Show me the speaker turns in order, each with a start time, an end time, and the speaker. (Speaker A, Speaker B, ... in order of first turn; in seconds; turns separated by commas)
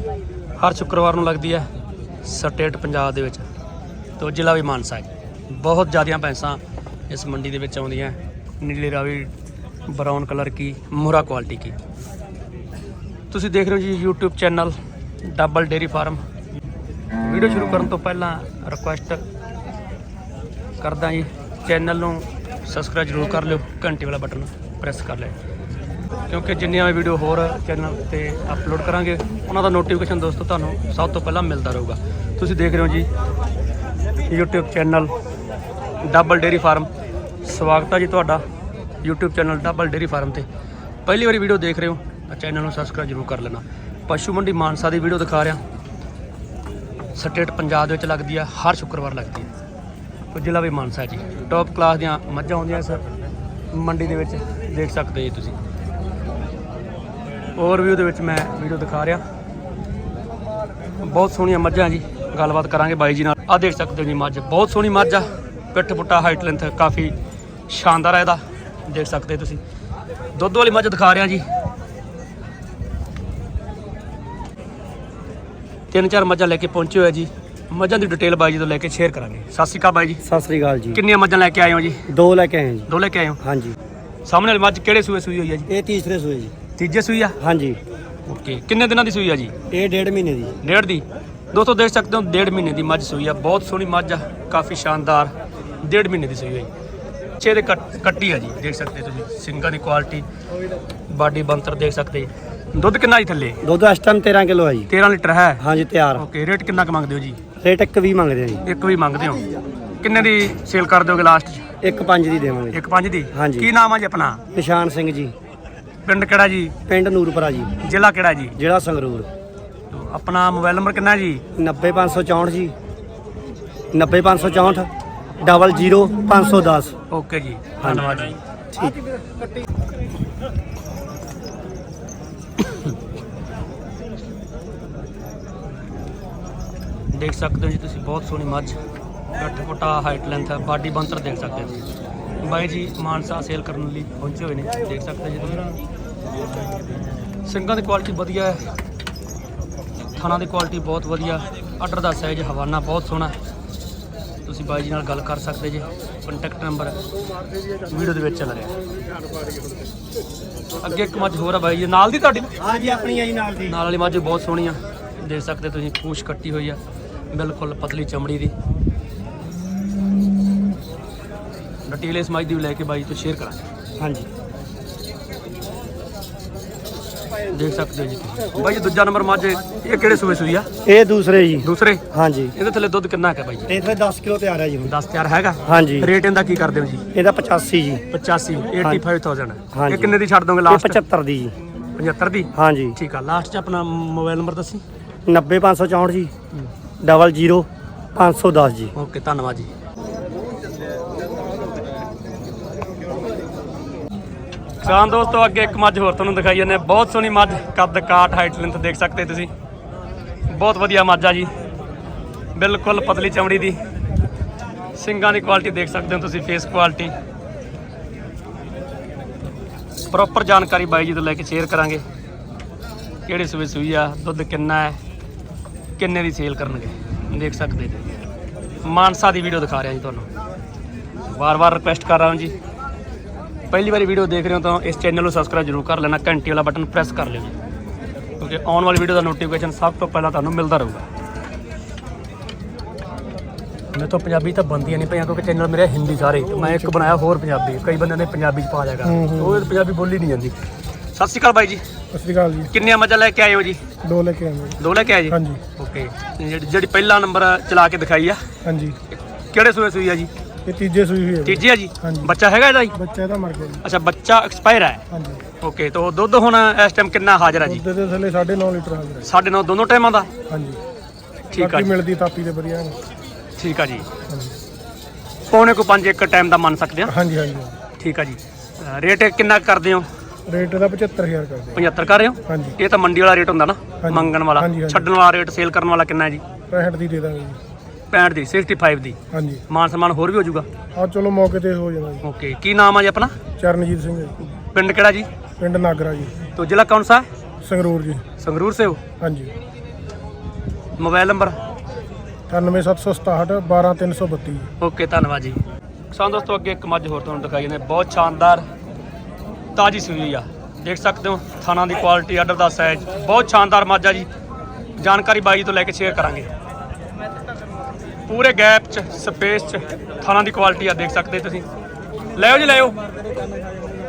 Speaker A: 0.6-1.7, Speaker A: 2.2-3.5, Speaker A: 4.2-9.3, Speaker A: 9.9-11.8, Speaker A: 13.3-16.2, Speaker A: 17.2-19.2, Speaker A: 20.8-25.4, Speaker A: 26.3-33.1, Speaker A: 34.3-35.1, Speaker A: 36.0-36.9, Speaker A: 37.4-38.4, Speaker A: 39.0-40.5, Speaker A: 41.1-45.6, Speaker A: 47.1-49.5, Speaker A: 50.3-53.0, Speaker A: 53.7-55.6, Speaker A: 57.6-59.2, Speaker A: 61.0-67.1, Speaker A: 67.7-69.6, Speaker A: 70.3-71.5, Speaker A: 75.9-80.2, Speaker B: 80.2-81.0, Speaker A: 80.9-82.0, Speaker B: 82.1-82.9, Speaker A: 82.9-83.4, Speaker B: 83.4-83.8, Speaker A: 84.3-85.7, Speaker B: 85.7-86.5, Speaker A: 86.8-87.4, Speaker B: 87.4-87.8, Speaker A: 88.3-89.5, Speaker B: 89.7-90.5, Speaker A: 90.6-96.7, Speaker A: 97.4-100.3, Speaker A: 101.1-103.6, Speaker B: 103.6-104.9, Speaker A: 104.9-105.6, Speaker B: 105.6-106.2, Speaker A: 106.2-107.4, Speaker B: 107.6-108.6, Speaker A: 108.7-109.5, Speaker A: 110.0-111.7, Speaker B: 111.8-112.8, Speaker A: 112.7-114.4, Speaker B: 113.3-113.7, Speaker B: 114.5-115.3, Speaker A: 116.0-116.8, Speaker B: 116.9-117.8, Speaker A: 117.8-118.6, Speaker B: 118.6-119.3, Speaker A: 119.9-121.4, Speaker B: 121.5-122.7, Speaker B: 123.9-126.9, Speaker A: 127.1-128.4, Speaker B: 127.8-128.1, Speaker B: 128.7-129.0, Speaker A: 137.1-138.8, Speaker A: 139.4-141.8, Speaker A: 142.4-145.7, Speaker A: 147.4-148.7, Speaker A: 150.2-153.3, Speaker A: 154.5-157.0, Speaker A: 157.9-158.8, Speaker A: 160.8-162.5, Speaker B: 162.6-163.8, Speaker A: 163.7-166.8, Speaker A: 167.3-168.5, Speaker A: 171.9-173.6, Speaker B: 174.0-174.3, Speaker A: 177.5-180.7, Speaker B: 180.8-182.5, Speaker A: 181.6-182.0, Speaker A: 182.6-183.7, Speaker B: 183.7-184.9, Speaker A: 184.8-187.1, Speaker B: 185.7-186.1, Speaker B: 187.1-188.1, Speaker A: 188.1-191.0, Speaker B: 189.7-191.6, Speaker A: 192.0-194.8, Speaker B: 192.6-193.0, Speaker B: 195.3-196.3, Speaker B: 197.0-198.9, Speaker A: 198.9-199.7, Speaker A: 204.8-209.5, Speaker A: 210.5-211.5, Speaker A: 212.6-213.8, Speaker A: 215.0-217.2, Speaker A: 220.1-222.0, Speaker A: 223.3-225.0, Speaker A: 226.0-228.1, Speaker A: 228.8-230.3, Speaker A: 231.3-232.5, Speaker A: 233.7-237.6, Speaker A: 238.4-241.1, Speaker A: 243.9-250.6, Speaker C: 249.0-249.7, Speaker A: 251.1-251.8, Speaker C: 252.1-252.7, Speaker A: 252.7-253.8, Speaker C: 254.0-254.8, Speaker A: 254.8-258.4, Speaker C: 255.3-255.6, Speaker C: 258.6-259.0, Speaker A: 259.5-260.3, Speaker C: 260.6-262.3, Speaker A: 261.4-263.0, Speaker C: 262.9-263.8, Speaker A: 263.8-265.0, Speaker C: 265.1-265.4, Speaker A: 265.6-267.8, Speaker C: 267.6-269.3, Speaker A: 269.2-270.3, Speaker C: 270.5-270.8, Speaker A: 271.5-271.9, Speaker C: 271.6-273.0, Speaker A: 273.6-274.1, Speaker C: 274.3-274.6, Speaker A: 275.5-277.1, Speaker C: 277.1-277.8, Speaker A: 278.0-280.1, Speaker C: 280.5-281.9, Speaker A: 281.8-286.4, Speaker C: 282.5-282.8, Speaker C: 284.0-285.1, Speaker C: 286.7-287.6, Speaker A: 288.1-290.7, Speaker C: 289.3-289.6, Speaker C: 290.9-292.2, Speaker A: 292.2-293.4, Speaker C: 293.6-294.5, Speaker A: 294.7-295.3, Speaker C: 295.6-296.4, Speaker A: 296.5-297.3, Speaker C: 297.6-298.2, Speaker A: 298.4-299.0, Speaker C: 299.2-299.5, Speaker A: 301.0-301.6, Speaker C: 302.5-304.7, Speaker A: 304.8-308.7, Speaker A: 309.8-314.3, Speaker A: 315.0-316.5, Speaker A: 318.3-321.7, Speaker A: 322.3-323.0